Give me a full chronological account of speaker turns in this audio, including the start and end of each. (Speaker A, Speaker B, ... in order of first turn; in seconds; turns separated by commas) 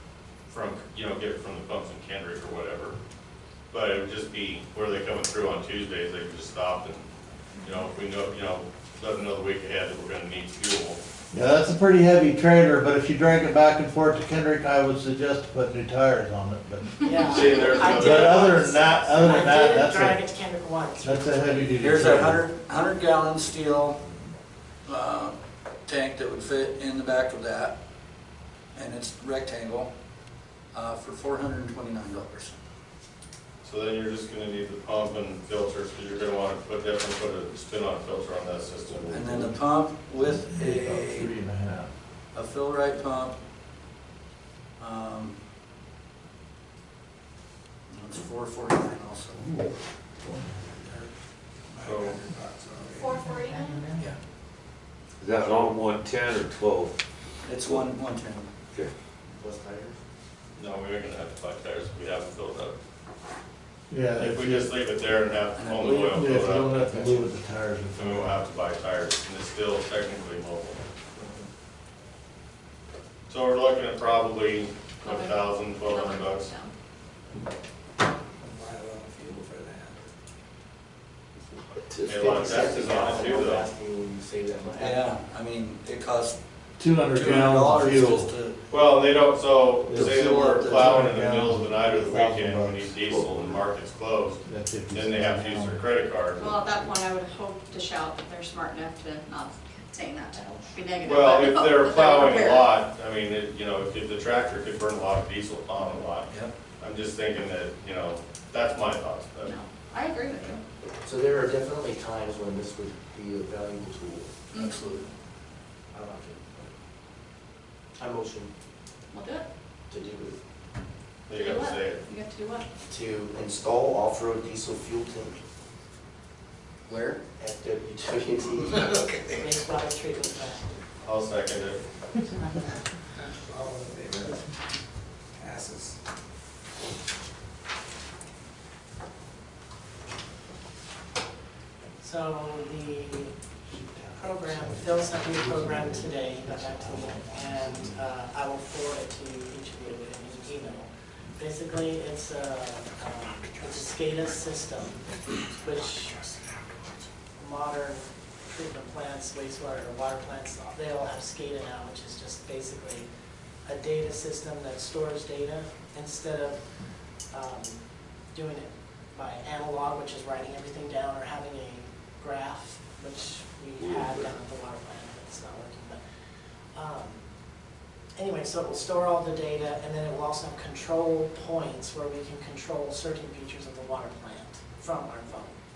Speaker A: 0.5-3.0, Speaker A: 3.7-7.1, Speaker A: 7.6-11.0, Speaker B: 11.3-20.2, Speaker C: 17.0-21.8, Speaker A: 17.2-19.2, Speaker B: 21.0-22.4, Speaker D: 21.8-24.0, Speaker D: 24.9-27.8, Speaker D: 28.7-29.9, Speaker D: 30.7-32.6, Speaker A: 33.6-39.5, Speaker D: 39.1-41.3, Speaker B: 40.2-41.9, Speaker D: 42.3-43.4, Speaker D: 44.8-45.4, Speaker D: 47.9-49.5, Speaker A: 51.8-52.2, Speaker E: 51.8-53.1, Speaker F: 53.0-53.8, Speaker G: 55.2-57.0, Speaker D: 57.5-58.5, Speaker H: 59.3-60.0, Speaker A: 60.5-62.8, Speaker B: 63.9-64.7, Speaker A: 64.2-66.9, Speaker D: 65.5-66.2, Speaker B: 66.0-68.4, Speaker A: 67.9-70.8, Speaker A: 73.3-76.5, Speaker F: 75.0-76.7, Speaker E: 78.5-80.0, Speaker H: 81.8-85.1, Speaker A: 82.0-83.7, Speaker D: 84.8-86.4, Speaker B: 86.8-88.3, Speaker D: 87.1-88.6, Speaker A: 88.7-96.8, Speaker B: 89.9-92.9, Speaker D: 89.9-91.0, Speaker H: 93.1-93.6, Speaker B: 94.4-95.8, Speaker F: 96.4-102.8, Speaker A: 101.0-109.5, Speaker F: 109.4-110.6, Speaker H: 111.0-114.3, Speaker F: 114.5-114.8, Speaker D: 114.6-115.1, Speaker H: 115.9-116.7, Speaker H: 118.0-118.5, Speaker F: 119.1-119.5, Speaker H: 119.9-120.4, Speaker A: 121.3-122.0, Speaker F: 121.4-122.7, Speaker H: 122.9-125.4, Speaker H: 126.9-128.8, Speaker C: 129.3-130.7, Speaker A: 131.0-131.8, Speaker E: 133.4-134.4, Speaker E: 135.4-135.9, Speaker C: 142.0-143.3, Speaker B: 143.7-148.0, Speaker C: 144.2-156.2, Speaker C: 157.4-163.1, Speaker C: 163.7-166.6, Speaker C: 167.3-167.8, Speaker C: 168.3-176.0, Speaker G: 173.8-174.3, Speaker C: 176.8-177.3, Speaker C: 178.2-185.6